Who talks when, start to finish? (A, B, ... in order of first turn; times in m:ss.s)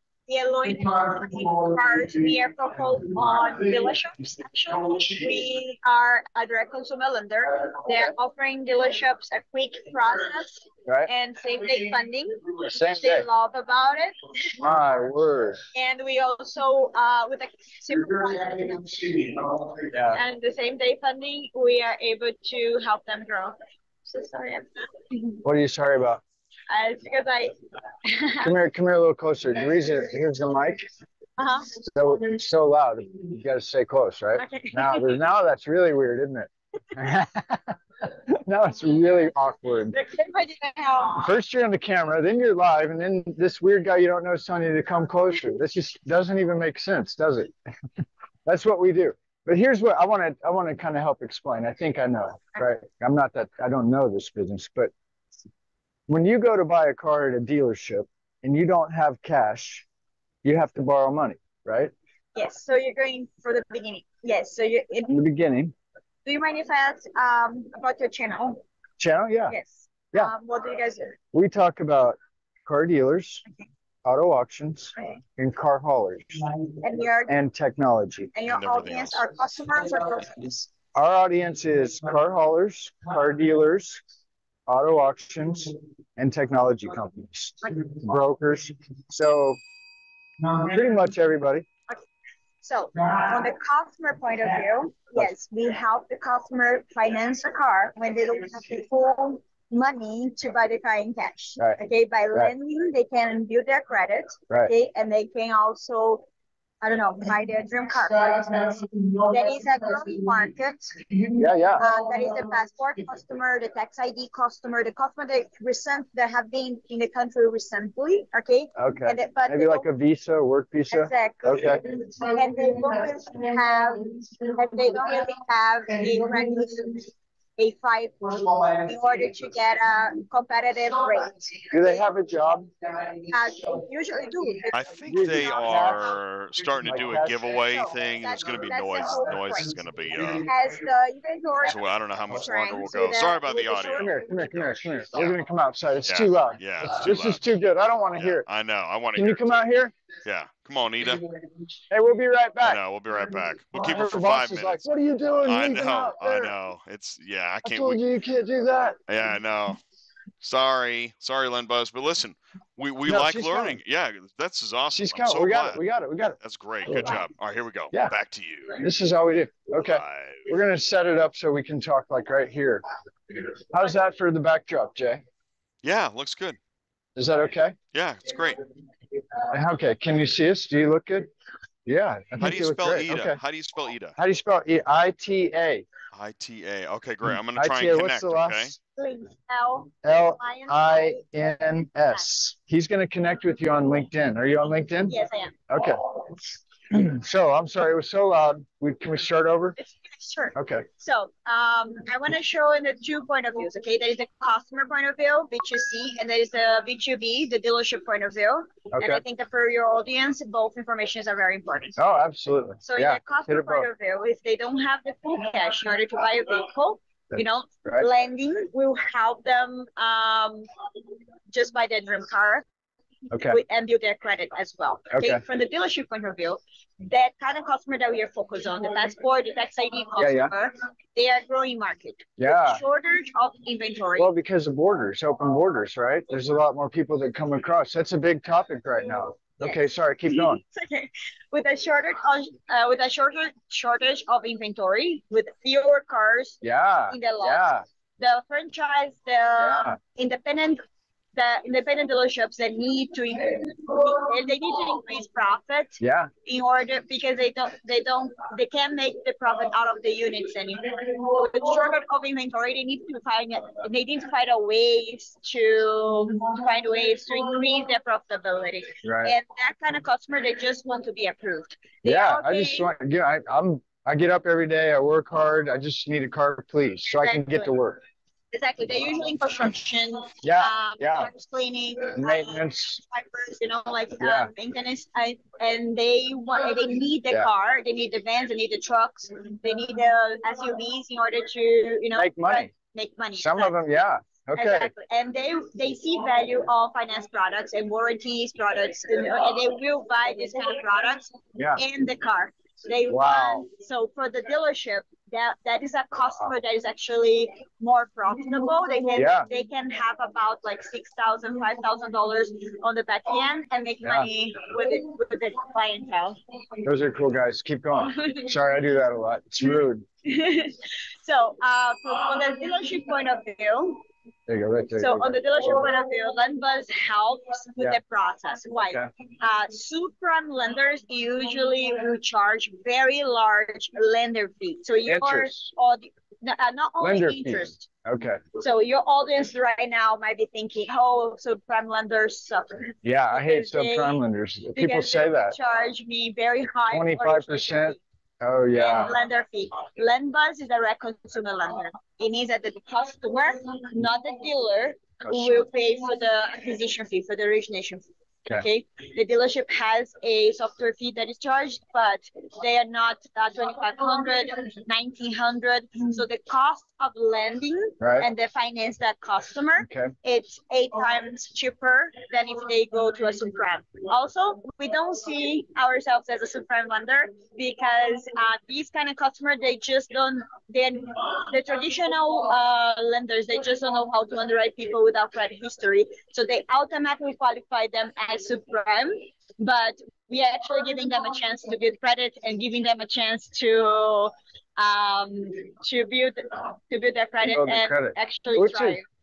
0:00.3-0:14.3 A
0:10.9-0:11.1 B
0:12.7-0:13.2 B
0:14.6-0:15.6 B
0:15.7-0:19.3 A
0:19.9-0:20.2 B
0:20.1-0:25.4 A
0:25.4-0:26.2 B
0:26.7-0:27.5 A
0:28.1-0:28.6 A
0:28.4-0:30.9 B
0:31.4-0:31.8 A
0:31.8-0:40.0 B
0:34.4-0:35.1 A
0:39.9-0:41.3 A
0:41.2-0:47.5 B
0:48.5-0:54.9 B
0:56.1-0:59.8 B
1:00.4-1:01.9 B
1:02.4-1:05.1 A
1:05.1-1:05.8 B
1:06.3-1:08.6 A
1:09.0-1:09.6 B
1:09.5-1:11.2 A
1:11.3-1:13.4 B
1:14.0-1:16.5 B
1:16.8-1:17.3 A
1:17.3-1:18.3 B
1:18.4-1:20.7 A
1:18.5-1:19.2 C
1:20.9-1:24.0 B
1:24.7-1:29.6 B
1:30.6-1:31.7 B
1:32.6-1:46.3 A
1:46.8-1:51.0 A
1:51.3-1:51.9 B
1:51.8-1:59.9 A
1:58.8-2:01.9 B
2:00.9-2:01.7 A
2:02.3-2:11.7 A
2:11.7-2:12.7 B
2:13.3-2:14.7 A
2:14.7-2:20.5 C
2:15.1-2:16.1 B
2:16.8-2:17.5 B
2:17.7-2:19.7 A
2:20.4-2:21.8 A
2:21.6-2:25.4 C
2:22.3-2:24.1 A
2:23.8-2:28.4 B
2:26.0-2:27.4 C
2:28.2-2:29.7 C
2:29.2-2:29.9 B
2:30.2-2:31.2 C
2:31.9-2:32.8 B
2:32.6-2:34.9 C
2:33.7-2:36.5 B
2:35.4-2:38.0 C
2:37.6-2:39.0 B
2:39.1-2:39.8 C
2:40.4-2:45.8 C
2:43.1-2:43.8 B
2:44.9-2:47.2 B
2:46.4-2:48.8 C
2:48.8-2:52.8 B
2:49.8-2:50.4 C
2:53.7-2:55.2 B
2:55.8-2:56.6 C
2:57.2-2:57.8 B
2:57.9-2:58.6 C
2:59.5-3:01.3 B
3:01.9-3:03.4 B
3:02.4-3:04.2 C
3:04.2-3:05.9 B
3:06.1-3:08.8 C
3:07.5-3:08.8 B
3:09.0-3:11.2 A
3:10.0-3:15.2 B
3:15.1-3:15.5 A
3:15.7-3:16.3 B
3:16.9-3:19.8 B
3:19.8-3:32.0 A
3:20.6-3:20.9 B
3:28.9-3:29.2 B
3:32.0-3:33.9 B
3:32.8-3:40.7 A
3:37.3-3:38.1 B
3:41.5-3:42.6 A
3:43.3-3:43.6 B
3:43.5-3:54.3 A
3:45.1-3:45.4 B
3:50.2-3:50.5 B
3:52.4-3:52.8 B
3:54.2-4:00.6 B
3:59.6-4:06.6 A
4:06.6-4:07.8 B
4:07.1-4:07.7 A
4:08.2-4:10.8 A
4:09.6-4:10.0 B
4:11.4-4:32.9 A
4:16.0-4:16.3 B
4:29.0-4:29.3 B
4:32.0-4:38.0 B
4:37.1-4:37.7 A
4:38.5-4:53.8 A
4:40.4-4:41.3 B
4:42.2-4:43.0 B
4:44.2-4:44.5 B
4:52.2-4:52.7 B
4:53.4-4:54.9 B
4:54.6-5:16.4 A
5:01.6-5:01.8 B
5:03.1-5:03.7 B
5:09.2-5:09.5 B
5:16.8-5:20.1 B
5:18.2-5:18.4 A
5:20.2-5:24.0 A
5:24.5-5:25.7 B
5:25.0-5:37.9 A
5:35.1-5:35.7 B
5:37.0-5:38.4 B
5:38.6-5:44.2 A
5:43.0-5:45.6 B
5:44.8-5:48.0 A
5:46.9-5:49.1 B
5:48.7-5:58.0 A
5:55.2-5:55.7 B
5:58.6-6:39.0 A
6:08.0-6:08.3 B
6:09.8-6:10.1 B
6:37.4-6:39.0 B